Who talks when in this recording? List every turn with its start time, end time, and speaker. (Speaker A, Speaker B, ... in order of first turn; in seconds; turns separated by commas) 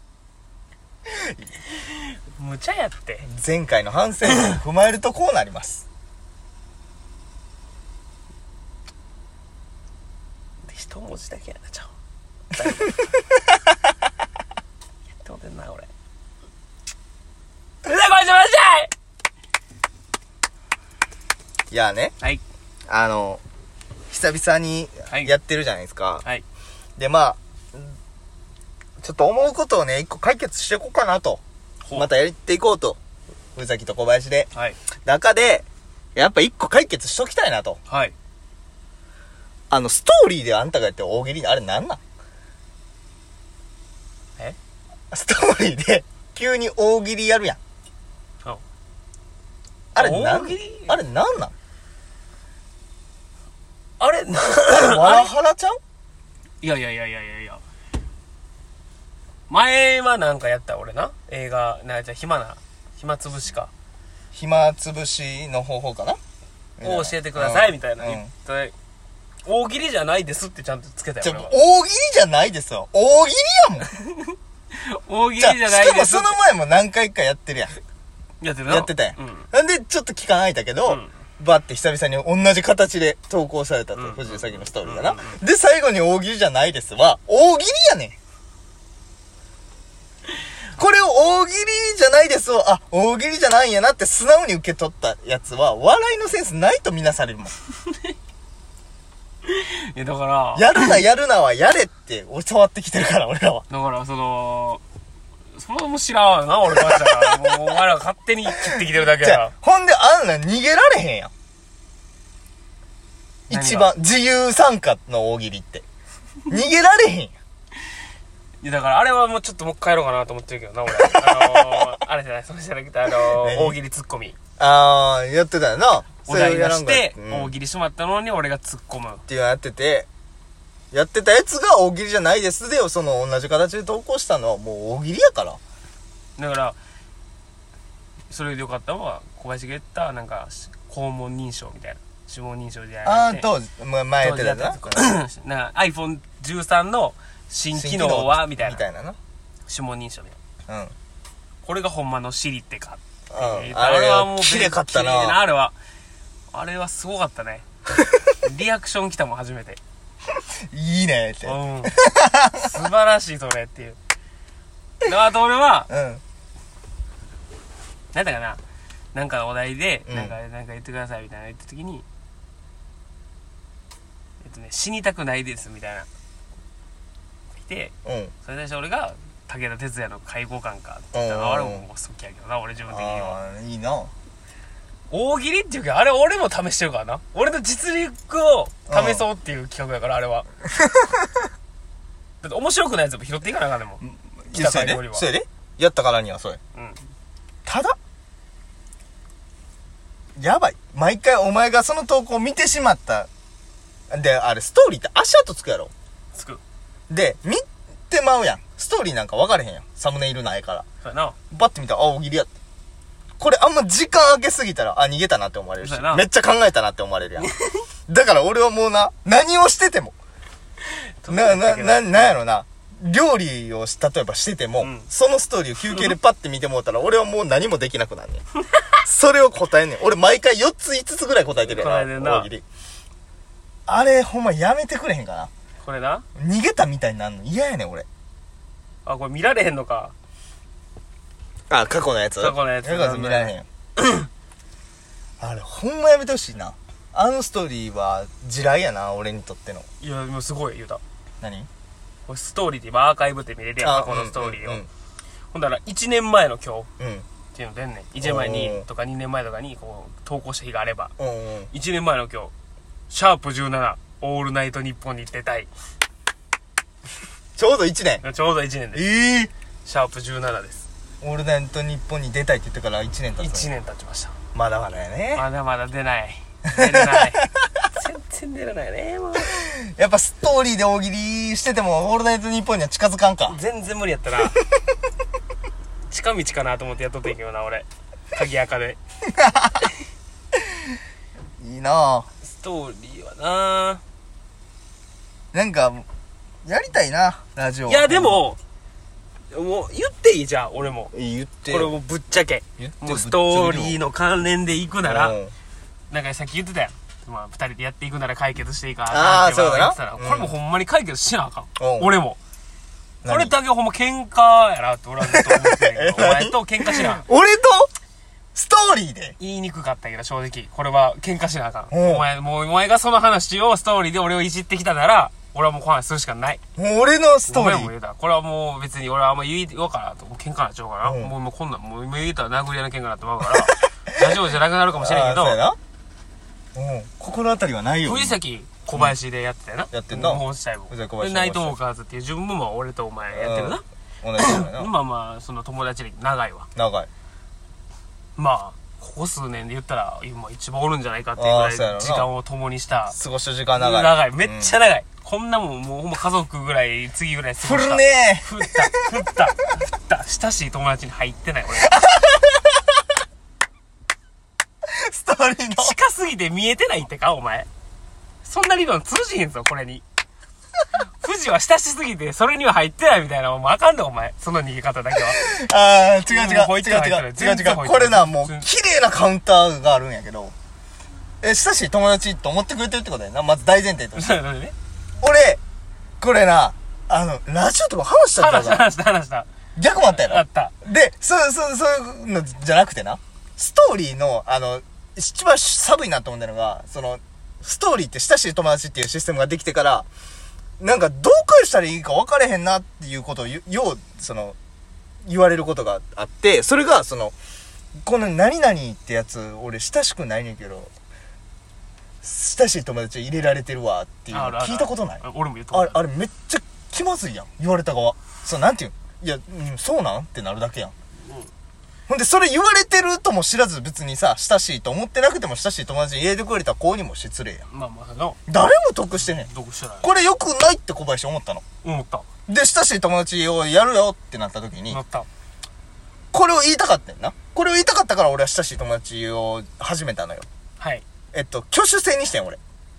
Speaker A: 1.9-3.3, Speaker B: 3.2-5.8, Speaker A: 10.6-11.9, Speaker A: 12.5-13.1, Speaker A: 15.2-15.9, Speaker A: 17.8-18.9, Speaker B: 21.7-22.1, Speaker B: 22.9-23.4, Speaker B: 24.1-26.2, Speaker A: 25.1-25.3, Speaker B: 27.0-27.9, Speaker B: 29.0-31.4, Speaker B: 31.9-33.0, Speaker B: 33.5-34.5, Speaker A: 34.5-34.8, Speaker B: 35.0-37.8, Speaker A: 37.9-38.1, Speaker B: 39.7-42.0, Speaker B: 45.1-47.6, Speaker B: 50.0-51.5, Speaker A: 50.0-51.0, Speaker A: 54.0-55.3, Speaker B: 54.7-55.8, Speaker A: 56.6-57.6, Speaker A: 59.5-63.7, Speaker B: 64.3-66.2, Speaker B: 66.8-68.3, Speaker A: 66.8-68.7, Speaker A: 69.5-71.5, Speaker B: 71.2-73.9, Speaker A: 74.0-76.4, Speaker B: 75.4-77.8, Speaker A: 78.4-79.5, Speaker B: 78.7-88.2, Speaker A: 84.0-85.4, Speaker B: 90.8-97.5, Speaker A: 99.5-100.9, Speaker B: 100.5-103.7, Speaker A: 103.7-104.8, Speaker A: 105.5-109.5, Speaker B: 106.7-107.8, Speaker B: 108.6-111.3, Speaker A: 113.5-113.9, Speaker B: 113.5-115.9, Speaker B: 116.5-117.3, Speaker A: 118.6-124.4, Speaker B: 121.0-121.9, Speaker B: 123.3-123.8, Speaker B: 124.6-127.5, Speaker A: 126.2-129.2, Speaker B: 129.3-130.1, Speaker B: 130.9-135.6, Speaker A: 136.4-136.8, Speaker A: 138.3-143.5, Speaker B: 143.1-145.2, Speaker A: 144.2-148.8, Speaker B: 147.7-149.2, Speaker A: 149.7-150.4, Speaker B: 150.7-150.9, Speaker A: 151.6-155.8, Speaker B: 153.3-155.4, Speaker A: 156.5-157.9, Speaker A: 158.4-159.8, Speaker B: 160.7-162.7, Speaker A: 161.4-162.0, Speaker A: 162.5-164.0, Speaker A: 165.0-165.9, Speaker B: 165.9-166.2, Speaker A: 168.1-168.6, Speaker A: 169.1-172.1, Speaker B: 170.1-170.3, Speaker A: 174.4-176.1, Speaker A: 177.6-183.4, Speaker B: 178.1-178.3, Speaker B: 181.1-181.9, Speaker B: 182.9-184.1, Speaker A: 185.1-190.5, Speaker B: 188.9-189.3, Speaker B: 190.8-191.3, Speaker A: 192.4-194.0, Speaker B: 194.0-196.6, Speaker A: 194.5-195.3, Speaker A: 196.7-197.0, Speaker B: 197.7-198.0, Speaker B: 200.4-203.3, Speaker B: 204.1-205.9, Speaker A: 206.3-206.6, Speaker B: 207.1-210.8, Speaker A: 211.0-211.4, Speaker B: 211.5-212.5, Speaker B: 213.4-217.5, Speaker A: 215.8-216.3, Speaker A: 217.4-217.8, Speaker B: 218.1-220.2, Speaker A: 221.2-222.4, Speaker B: 221.3-228.4, Speaker A: 224.8-225.1, Speaker B: 229.0-232.6, Speaker A: 231.6-232.5, Speaker B: 233.9-235.5, Speaker A: 235.8-236.2, Speaker B: 236.4-238.1, Speaker A: 239.1-240.1, Speaker B: 241.7-243.7, Speaker A: 242.4-244.3, Speaker B: 245.4-249.9, Speaker A: 250.0-251.0, Speaker B: 251.4-251.7, Speaker A: 252.3-254.8, Speaker B: 253.8-254.9, Speaker A: 255.5-256.9, Speaker B: 257.0-257.3, Speaker A: 257.5-261.1, Speaker B: 258.2-258.9, Speaker B: 261.2-261.7, Speaker A: 261.7-262.5, Speaker A: 263.1-265.7, Speaker B: 267.6-268.2, Speaker A: 268.2-269.1, Speaker B: 268.9-269.5, Speaker A: 269.9-270.9, Speaker B: 271.2-273.7, Speaker A: 273.4-274.4, Speaker B: 274.5-275.4, Speaker A: 275.3-279.5, Speaker B: 276.7-277.7, Speaker B: 279.4-283.6, Speaker A: 283.4-284.6, Speaker A: 286.1-289.0, Speaker B: 289.3-289.9, Speaker B: 291.6-292.3, Speaker A: 292.4-294.0, Speaker B: 295.5-296.1, Speaker B: 296.6-298.4, Speaker A: 297.9-298.6, Speaker A: 299.5-301.1, Speaker B: 301.1-301.9, Speaker A: 301.7-305.4, Speaker B: 302.8-304.0, Speaker B: 305.0-305.5, Speaker A: 306.1-312.4, Speaker B: 309.1-310.5, Speaker B: 311.8-312.1, Speaker B: 313.2-313.6, Speaker A: 313.3-317.3, Speaker B: 315.2-317.9, Speaker B: 318.6-319.4, Speaker A: 319.4-326.6, Speaker B: 321.9-322.2, Speaker B: 326.8-327.9, Speaker A: 327.5-335.6, Speaker B: 331.0-331.3, Speaker B: 334.9-335.8, Speaker B: 336.8-338.4, Speaker A: 338.1-343.8, Speaker B: 339.9-341.8, Speaker B: 343.4-344.9, Speaker A: 344.4-346.7, Speaker B: 346.8-347.1, Speaker A: 348.4-353.2, Speaker B: 351.4-352.3, Speaker B: 353.1-354.7, Speaker A: 353.8-362.0, Speaker B: 357.6-359.1, Speaker B: 362.0-362.6, Speaker B: 364.9-366.0, Speaker A: 365.8-367.7, Speaker A: 368.4-370.0, Speaker A: 371.2-375.5, Speaker B: 375.3-380.5, Speaker A: 376.3-378.7, Speaker B: 381.4-384.4, Speaker A: 384.1-384.8, Speaker B: 385.2-385.6, Speaker B: 386.2-388.9, Speaker A: 388.4-389.5, Speaker B: 389.8-400.1, Speaker A: 390.0-390.7, Speaker B: 400.8-404.6, Speaker B: 405.3-407.4, Speaker B: 408.0-410.9, Speaker B: 412.2-415.2, Speaker A: 414.3-416.0, Speaker B: 415.7-420.9, Speaker A: 421.2-421.5, Speaker B: 422.1-427.6, Speaker A: 427.7-428.4, Speaker B: 428.5-429.5, Speaker A: 429.2-430.1, Speaker B: 430.0-431.6, Speaker A: 431.8-432.3, Speaker B: 432.5-435.0, Speaker A: 434.9-435.3, Speaker B: 436.3-440.5, Speaker A: 440.8-441.1, Speaker B: 441.3-442.6